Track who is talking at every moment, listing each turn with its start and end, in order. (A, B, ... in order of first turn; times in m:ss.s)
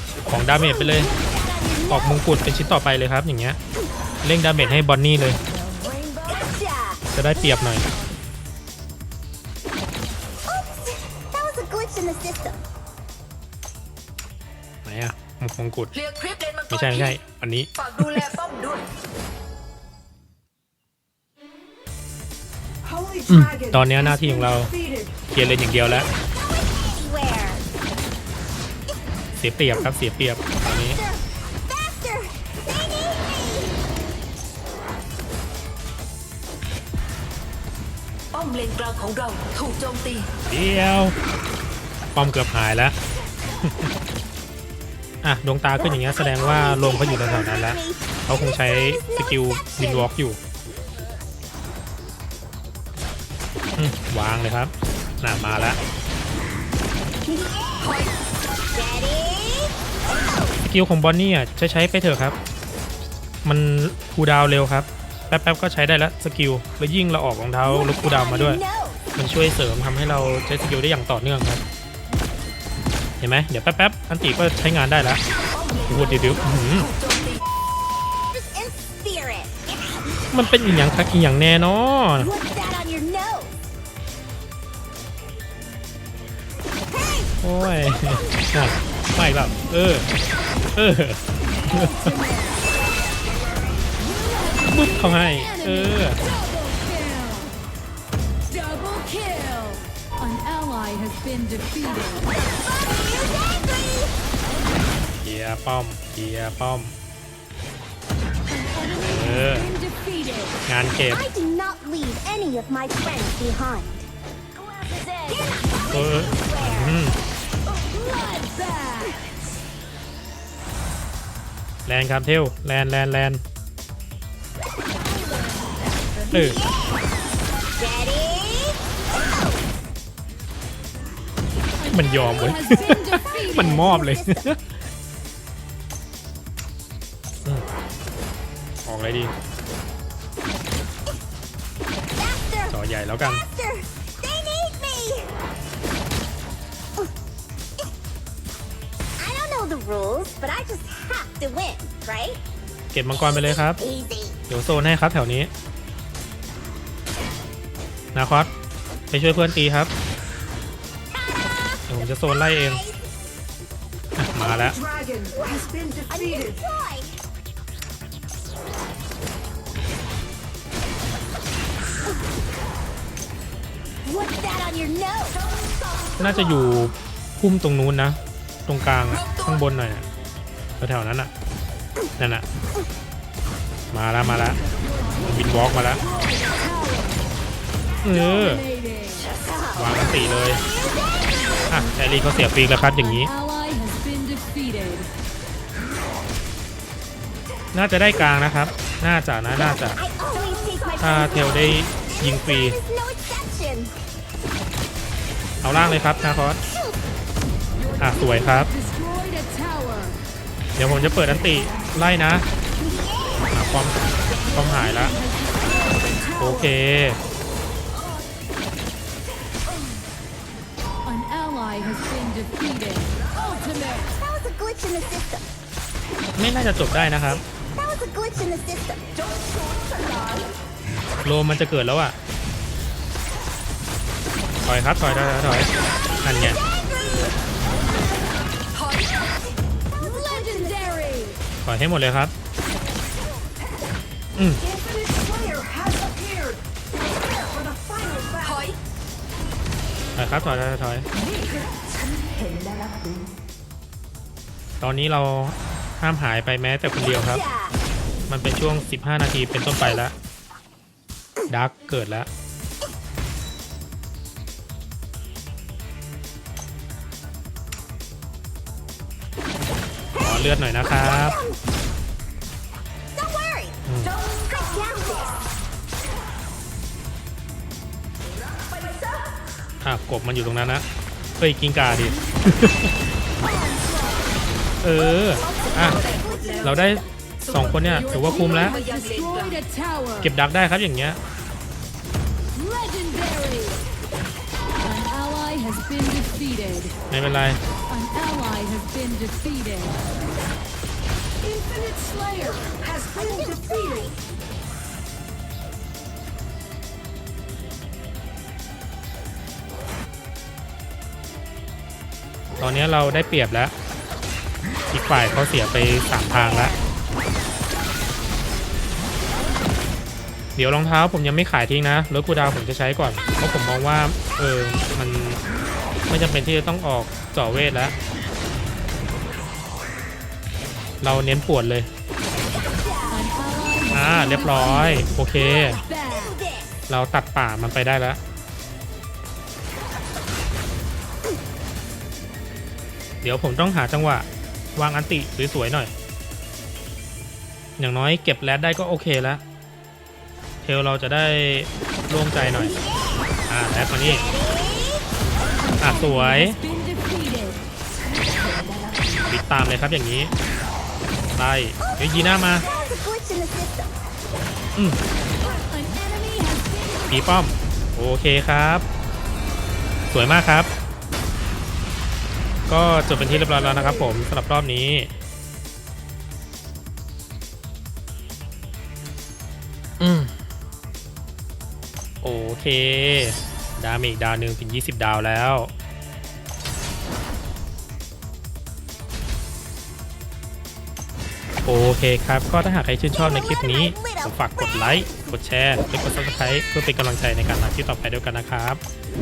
0:00.3-0:01.1 A
0:00.5-0:02.2 B
0:01.9-0:03.6 A
0:04.2-0:05.4 A
0:05.8-0:07.8 B
0:07.1-0:07.8 A
0:10.5-0:12.6 B
0:14.8-0:16.0 A
0:16.0-0:16.7 C
0:16.7-0:18.4 A
0:16.7-0:17.2 B
0:17.9-0:18.8 C
0:23.3-0:24.7 A
0:25.3-0:26.1 A
0:26.0-0:27.6 B
0:29.4-0:31.0 A
0:30.7-0:33.8 B
0:38.3-0:40.3 C
0:40.5-0:41.2 A
0:42.2-0:43.0 A
0:43.6-0:43.9 A
0:45.2-0:50.4 A
0:45.8-0:50.1 B
0:53.8-0:55.8 A
0:57.3-0:58.1 B
0:58.7-1:00.6 B
1:00.6-1:02.4 A
1:03.4-1:08.6 A
1:07.6-1:09.0 B
1:09.2-1:11.6 A
1:13.2-1:15.2 A
1:15.6-1:17.1 C
1:15.9-1:16.9 A
1:17.0-1:17.3 B
1:18.3-1:20.2 B
1:20.3-1:22.3 A
1:22.2-1:23.5 B
1:27.4-1:30.1 A
1:30.8-1:32.1 A
1:31.7-1:32.6 D
1:34.0-1:37.5 D
1:34.7-1:36.2 A
1:38.5-1:42.3 D
1:45.2-1:46.9 A
1:48.5-1:50.6 D
1:49.0-1:49.7 A
1:50.7-1:51.2 A
1:51.1-1:54.1 B
1:54.7-1:57.1 B
1:55.9-1:57.2 A
1:57.7-1:59.2 D
2:01.9-2:03.4 A
2:06.3-2:06.6 A
2:06.3-2:07.1 B
2:07.8-2:09.6 B
2:11.8-2:13.6 D
2:11.9-2:14.6 A
2:13.5-2:14.4 B
2:18.8-2:19.3 A
2:22.2-2:25.3 B
2:22.7-2:23.4 A
2:29.2-2:32.4 B
2:32.9-2:33.8 A
2:33.1-2:34.4 B
2:34.5-2:35.5 A
2:38.1-2:38.5 A
2:39.1-2:39.9 A
2:41.9-2:42.8 A
2:42.1-2:43.1 B
2:44.2-2:44.8 A
2:44.8-2:45.2 C
2:45.2-2:47.1 B
2:54.0-2:55.4 B
2:56.2-3:00.0 A
3:00.8-3:01.3 A
3:02.2-3:02.4 A
3:03.9-3:04.6 A
3:05.2-3:06.0 A
3:06.0-3:07.2 D
3:08.0-3:08.7 A
3:08.1-3:09.3 D
3:09.2-3:10.8 B
3:09.8-3:10.6 A
3:11.7-3:13.3 A
3:13.0-3:15.1 D
3:17.7-3:20.0 A
3:19.5-3:23.9 B
3:21.0-3:22.8 A
3:25.6-3:26.6 A
3:25.7-3:27.0 B
3:28.0-3:28.7 A
3:28.0-3:30.2 D
3:30.8-3:32.5 A
3:32.8-3:33.4 B
3:33.5-3:35.2 A
3:34.8-3:36.6 D
3:36.4-3:37.2 A
3:41.0-3:44.1 D
3:43.9-3:45.4 B
3:46.4-3:47.4 A
3:47.5-3:49.1 B
3:49.2-3:50.5 C
3:51.2-3:52.2 A
3:54.6-3:56.6 A
3:58.8-3:59.0 C
4:00.0-4:01.2 B
4:00.0-4:01.4 D
4:01.6-4:02.3 A
4:04.4-4:04.7 A
4:04.7-4:06.6 C
4:07.6-4:08.8 C
4:10.2-4:11.1 A
4:14.8-4:17.4 A
4:17.0-4:17.8 B
4:18.3-4:20.1 A
4:21.5-4:22.3 A
4:30.2-4:31.4 A
4:30.8-4:31.6 B
4:33.2-4:35.4 B
4:33.9-4:34.2 A
4:39.8-4:40.8 A
4:41.4-4:42.9 A
4:44.8-4:46.1 A
4:45.5-4:46.6 C
4:45.7-4:47.0 B
4:46.6-4:48.8 A
4:47.4-4:49.5 C
4:47.9-4:50.3 D
4:50.2-4:51.2 A
4:52.5-4:53.8 D
4:54.8-4:56.9 D
4:57.1-4:57.6 A
4:57.9-5:00.0 D
5:01.5-5:02.4 C
5:02.4-5:04.2 B
5:12.6-5:13.7 A
5:14.9-5:16.8 A
5:16.3-5:16.7 B
5:20.6-5:25.4 A
5:26.1-5:28.0 A
5:31.0-5:31.9 A
5:32.5-5:33.3 B
5:33.1-5:35.1 D
5:33.9-5:35.8 A
5:35.3-5:36.7 B
5:35.8-5:36.4 D
5:36.9-5:38.2 A
5:43.2-5:45.9 A
5:47.8-5:49.4 A
5:50.6-5:52.8 A
5:52.5-5:53.0 B
5:53.5-5:54.2 A
5:54.0-5:55.1 B
5:55.6-5:57.6 D
5:55.8-5:56.6 A
5:59.3-6:00.3 A
6:01.4-6:02.7 A
6:01.9-6:03.9 B
6:05.4-6:07.3 D
6:07.1-6:08.8 A
6:10.1-6:10.7 A
6:12.7-6:15.1 A
6:20.0-6:20.3 A
6:22.2-6:25.7 A
6:31.7-6:38.8 A
6:33.1-6:35.3 B